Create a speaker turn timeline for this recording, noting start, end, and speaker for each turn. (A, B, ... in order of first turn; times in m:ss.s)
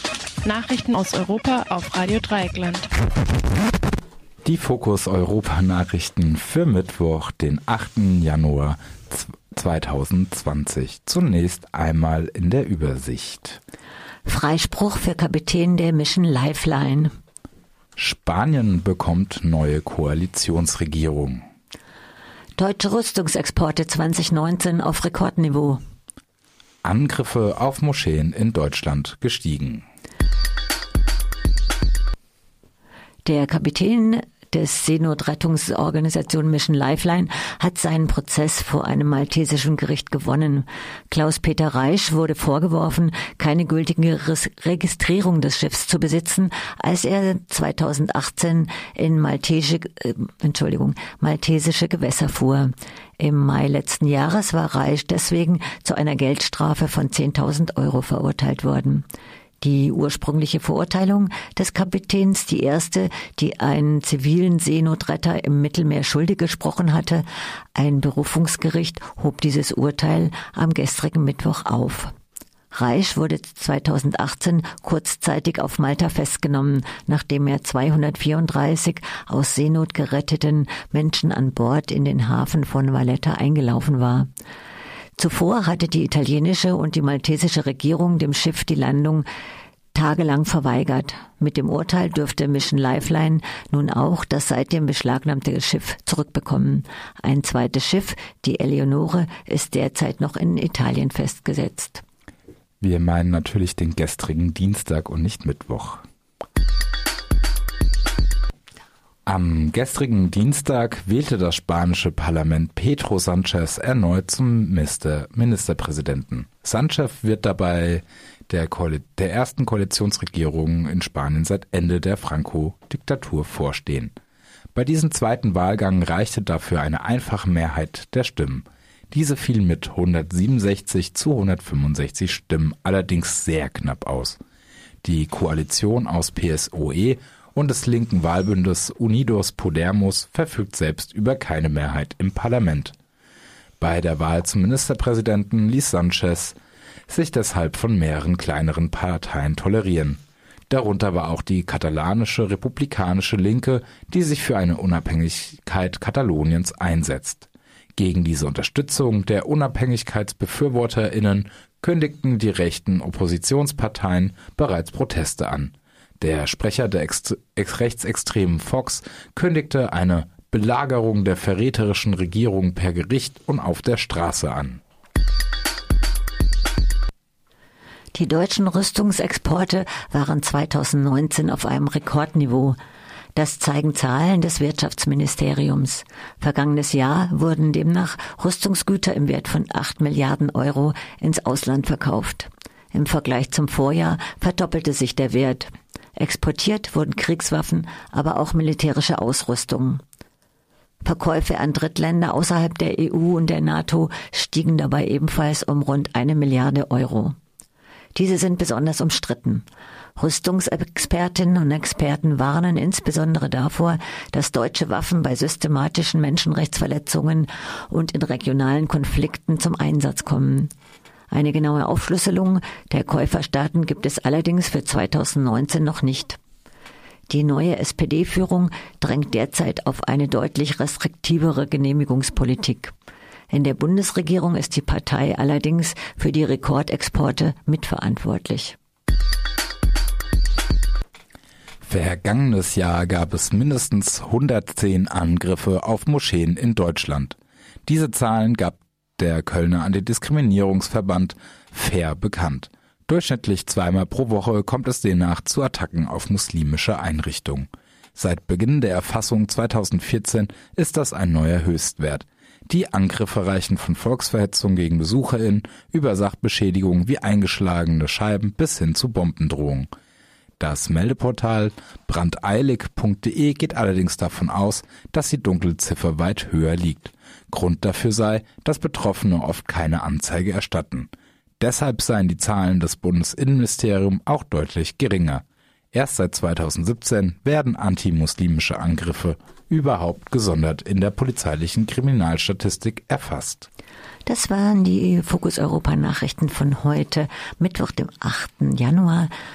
0:00.4-0:02.9 A
0:04.4-0:13.6 B
0:14.2-0:17.1 C
0:18.0-0:21.4 B
0:22.6-0:25.8 C
0:26.8-0:29.8 B
0:33.2-0:59.0 C
0:59.6-1:12.1 C
1:12.7-1:24.3 C
1:25.2-1:29.2 C
1:29.9-1:42.0 C
1:42.8-1:46.0 B
1:49.2-2:04.1 B
2:04.7-2:14.4 B
2:15.0-2:22.9 B
2:23.8-2:26.6 B
2:27.1-2:54.8 B
2:58.1-3:02.8 C
3:03.3-3:20.0 C
3:21.0-3:27.4 C
3:28.1-3:29.6 C
3:30.2-3:40.7 C
3:41.3-3:46.4 C
3:47.3-3:52.9 C
3:53.5-3:58.8 C
4:01.8-4:29.9 B
4:30.6-4:53.7 B
4:54.2-4:59.3 C